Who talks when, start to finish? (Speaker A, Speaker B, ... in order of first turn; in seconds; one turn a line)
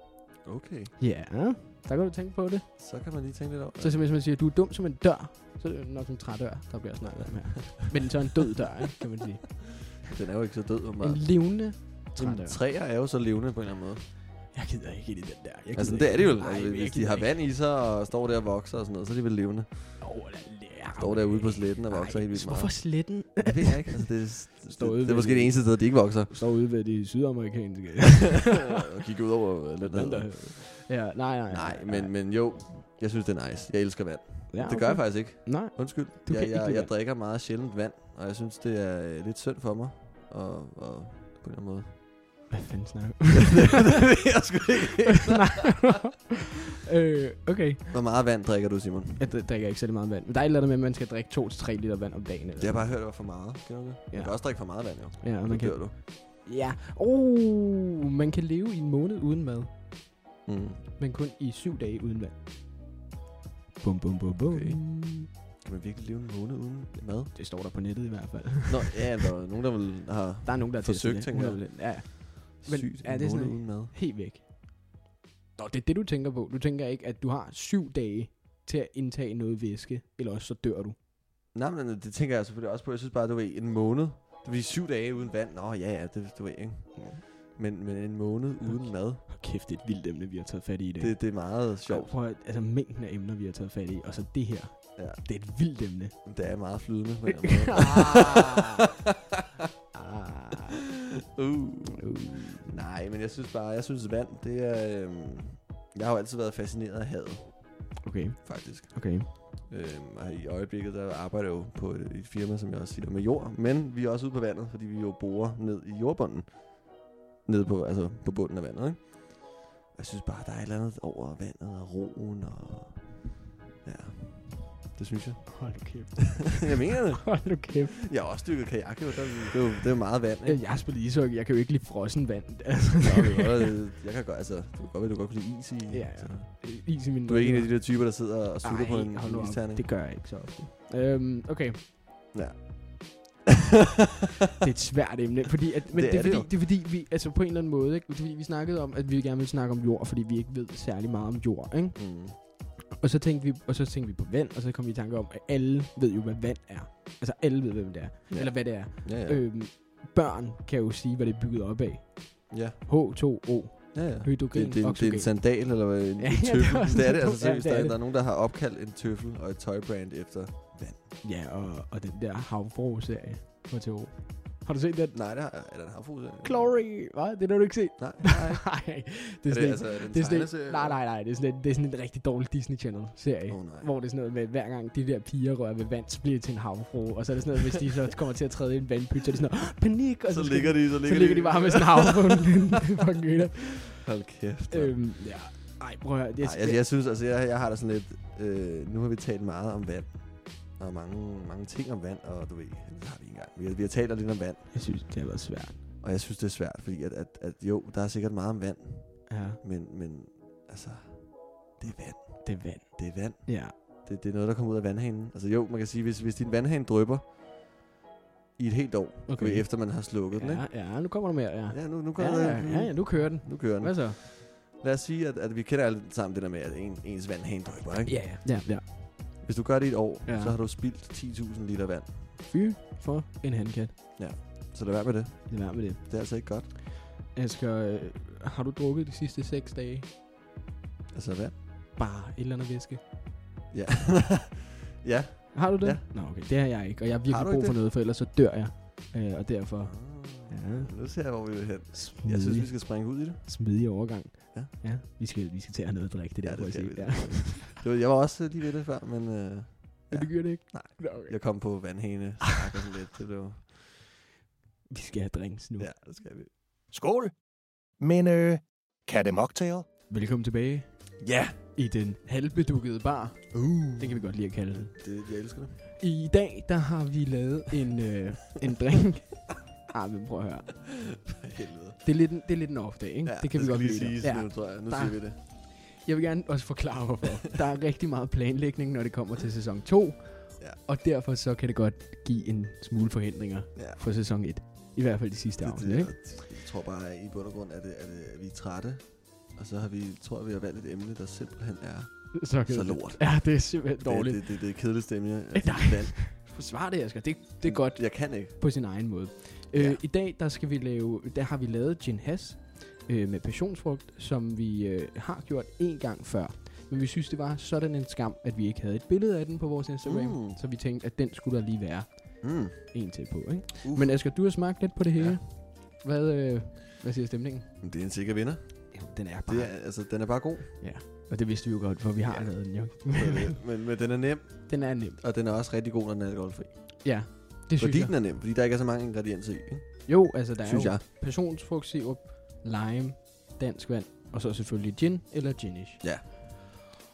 Speaker A: 0.4-1.0
Speaker B: 1.0-3.2
Speaker A: 2.8-4.1
Speaker B: 3.8-10.1
Speaker A: 7.1-7.4
Speaker A: 10.1-14.1
Speaker B: 11.0-12.6
Speaker B: 14.5-17.4
Speaker A: 15.7-20.2
Speaker B: 20.0-28.8
Speaker A: 21.0-26.3
Speaker A: 28.8-30.8
Speaker B: 29.8-32.1
Speaker A: 31.5-42.5
Speaker B: 34.5-36.9
Speaker B: 42.5-43.8
Speaker A: 43.3-45.7
Speaker B: 45.2-48.0
Speaker A: 47.9-49.3
Speaker B: 49.2-53.5
Speaker A: 52.6-56.0
Speaker B: 54.1-60.2
Speaker A: 60.5-60.8
Speaker B: 61.0-62.4
Speaker B: 63.8-65.3
Speaker A: 64.5-67.4
Speaker B: 67.3-69.0
Speaker A: 68.7-73.9
Speaker B: 70.4-75.0
Speaker B: 75.6-81.0
Speaker A: 81.5-89.2
Speaker B: 87.0-87.2
Speaker B: 88.8-96.3
Speaker A: 91.0-92.1
Speaker A: 95.0-95.2
Speaker A: 96.2-98.6
Speaker B: 97.3-98.8
Speaker B: 99.9-100.8
Speaker A: 101.3-102.1
Speaker B: 102.0-102.7
Speaker A: 102.6-123.3
Speaker B: 108.0-109.3
Speaker A: 123.8-126.0
Speaker B: 125.5-128.4
Speaker A: 126.6-130.6
Speaker B: 130.4-133.5
Speaker A: 133.0-139.9
Speaker B: 135.9-141.8
Speaker A: 142.3-143.4
Speaker B: 144.6-168.0
Speaker A: 145.9-146.5
Speaker A: 152.0-152.4
Speaker A: 158.3-159.4
Speaker A: 162.5-162.8
Speaker A: 163.9-171.0
Speaker B: 171.2-175.2
Speaker A: 175.1-176.8
Speaker B: 176.4-194.1
Speaker A: 178.0-181.0
Speaker A: 183.5-183.9
Speaker A: 190.3-192.6
Speaker A: 194.0-195.0
Speaker B: 194.7-196.8
Speaker A: 196.4-204.8
Speaker B: 204.7-205.8
Speaker A: 206.0-217.3
Speaker B: 209.3-209.6
Speaker B: 212.4-213.8
Speaker A: 218.6-220.7
Speaker B: 219.3-224.2
Speaker A: 221.7-228.7
Speaker B: 228.1-229.4
Speaker A: 229.4-232.3
Speaker B: 230.3-230.6
Speaker B: 232.4-234.0
Speaker A: 234.2-236.7
Speaker B: 235.5-240.1
Speaker A: 241.1-241.6
Speaker B: 242.0-243.0
Speaker A: 243.7-246.1
Speaker B: 245.5-251.0
Speaker A: 247.3-247.8
Speaker A: 249.8-253.5
Speaker B: 251.9-257.8
Speaker A: 256.4-263.9
Speaker B: 260.1-261.9
Speaker B: 264.9-265.9
Speaker A: 265.8-266.5
Speaker C: 266.9-269.9
Speaker B: 270.1-275.0
Speaker A: 271.2-271.6
Speaker A: 273.5-275.9
Speaker B: 276.0-281.2
Speaker A: 281.1-282.1
Speaker B: 282.0-296.2
Speaker A: 283.2-285.4
Speaker A: 293.8-294.0
Speaker A: 295.6-306.2
Speaker B: 302.3-305.0
Speaker B: 305.5-327.8
Speaker A: 307.6-308.6
Speaker A: 309.7-310.0
Speaker A: 320.0-320.6
Speaker A: 322.4-323.0
Speaker A: 323.8-324.3
Speaker A: 325.1-325.4
Speaker A: 327.8-330.8
Speaker B: 328.9-330.3
Speaker B: 330.8-333.6
Speaker A: 332.2-341.0
Speaker B: 334.7-335.2
Speaker B: 337.0-338.1
Speaker B: 340.1-346.4